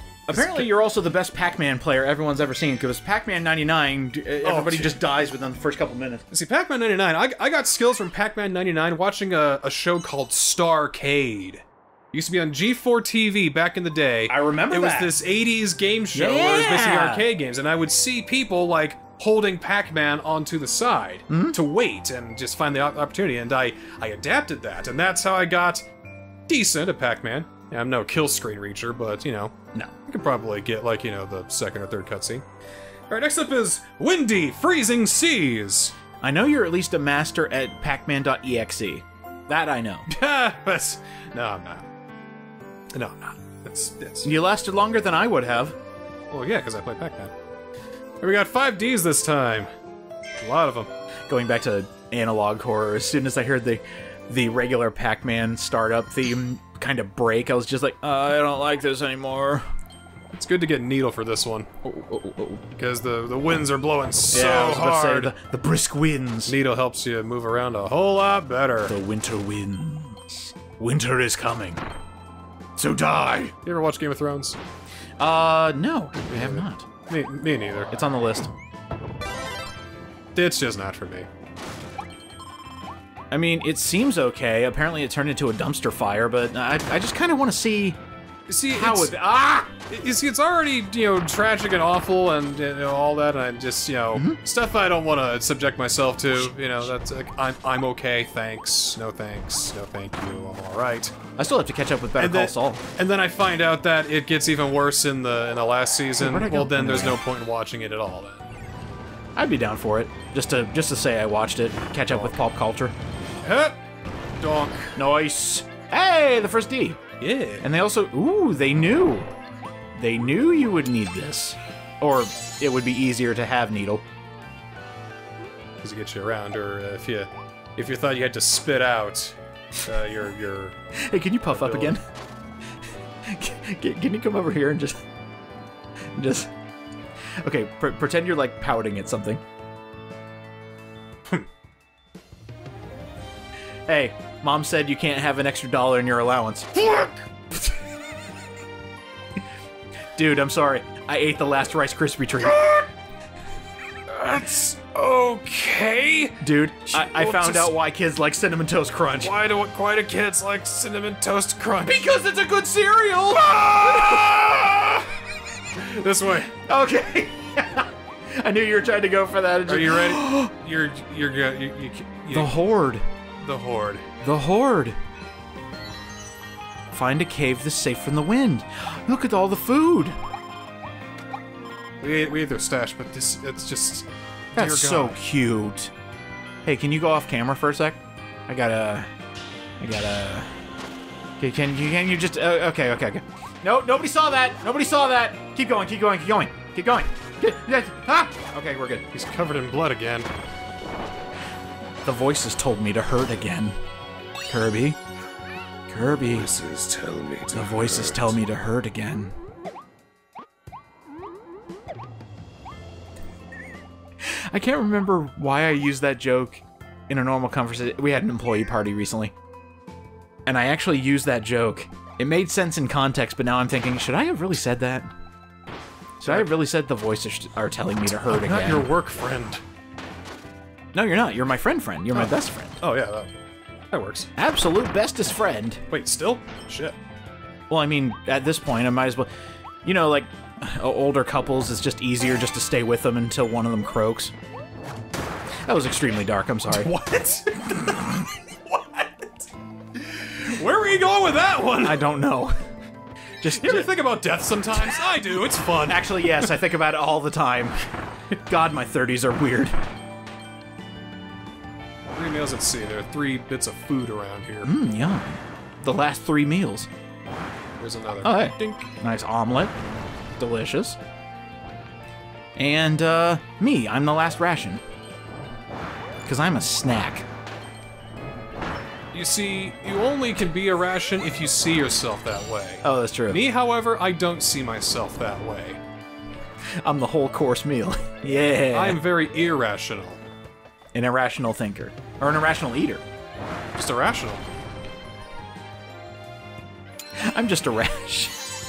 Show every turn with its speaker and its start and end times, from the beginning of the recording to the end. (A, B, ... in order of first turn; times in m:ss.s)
0:00.3-0:06.2 A
0:00.3-0:00.7 B
0:04.4-0:05.0 B
0:06.3-0:25.8 B
0:14.3-0:15.1 A
0:16.1-0:17.2 A
0:21.3-0:21.6 A
0:26.5-0:29.5 B
0:30.0-0:32.4 B
0:33.1-0:35.9 B
0:36.2-0:40.1 A
0:40.1-0:41.9 B
0:42.9-0:44.3 B
0:44.2-0:45.8 A
0:46.3-0:47.3 B
0:48.2-0:49.7 B
0:50.4-0:50.9 B
0:51.3-0:59.6 A
1:00.3-1:01.7 B
1:01.8-1:02.6 A
1:02.8-1:05.3 B
1:04.3-1:06.5 A
1:06.4-1:08.9 B
1:08.9-1:11.8 A
1:12.8-1:13.5 A
1:13.6-1:14.6 B
1:15.2-1:16.8 A
1:16.3-1:17.9 B
1:17.9-1:18.5 A
1:20.3-1:21.3 B
1:23.3-1:28.0 A
1:28.5-1:29.1 B
1:28.7-1:29.7 A
1:29.9-1:41.1 B
1:36.3-1:36.7 A
1:41.4-1:42.8 A
1:42.2-1:48.5 B
1:46.2-1:47.2 A
1:49.4-1:52.9 A
1:52.0-1:52.3 B
1:53.4-1:53.8 B
1:54.4-1:54.9 B
1:55.0-1:57.0 A
1:57.2-1:57.7 B
1:57.6-1:59.3 A
2:00.0-2:04.0 A
2:05.8-2:10.8 B
2:11.0-2:12.0 A
2:11.5-2:12.0 B
2:13.2-2:15.0 A
2:16.1-2:16.5 A
2:17.4-2:19.4 A
2:23.9-2:26.9 A
2:26.8-2:27.1 B
2:30.2-2:32.6 A
2:32.4-2:32.9 B
2:34.1-2:37.8 B
2:36.4-2:39.3 A
2:39.2-2:42.0 B
2:41.8-2:44.7 A
2:43.5-2:45.1 B
2:45.8-2:46.5 B
2:46.5-2:50.5 A
2:49.7-2:52.5 B
2:52.3-2:53.0 A
2:53.4-2:54.0 B
2:54.2-2:55.0 A
2:56.9-3:00.2 A
3:02.0-3:05.2 B
3:04.5-3:05.9 A
3:06.6-3:09.0 A
3:09.8-3:10.5 A
3:11.4-3:19.0 A
3:19.1-3:20.3 B
3:22.0-3:23.8 A
3:24.5-3:25.0 A
3:25.9-3:26.5 A
3:26.3-3:28.4 B
3:27.5-3:29.3 A
3:34.2-3:39.3 A
3:40.4-3:45.1 A
3:46.2-3:48.9 A
3:46.2-3:46.5 B
3:48.3-3:49.6 B
3:50.9-3:52.8 A
3:52.1-3:53.3 B
3:53.9-3:54.3 B
3:54.4-3:55.8 A
3:55.9-3:57.0 B
3:57.7-3:59.3 A
3:59.8-4:04.3 A
4:05.6-4:06.9 A
4:06.7-4:12.0 B
4:11.8-4:12.6 A
4:13.4-4:13.9 A
4:13.4-4:16.1 B
4:15.8-4:17.7 A
4:18.4-4:19.7 A
4:22.1-4:24.7 B
4:24.6-4:26.9 A
4:27.8-4:28.9 B
4:28.2-4:29.7 A
4:30.4-4:31.0 A
4:32.6-4:34.8 A
4:36.2-4:37.3 A
4:39.1-4:45.8 B
4:42.8-4:43.4 A
4:46.8-4:49.0 A
4:48.7-4:50.2 B
4:50.9-4:53.0 A
4:53.7-4:54.4 B
4:57.2-4:58.4 A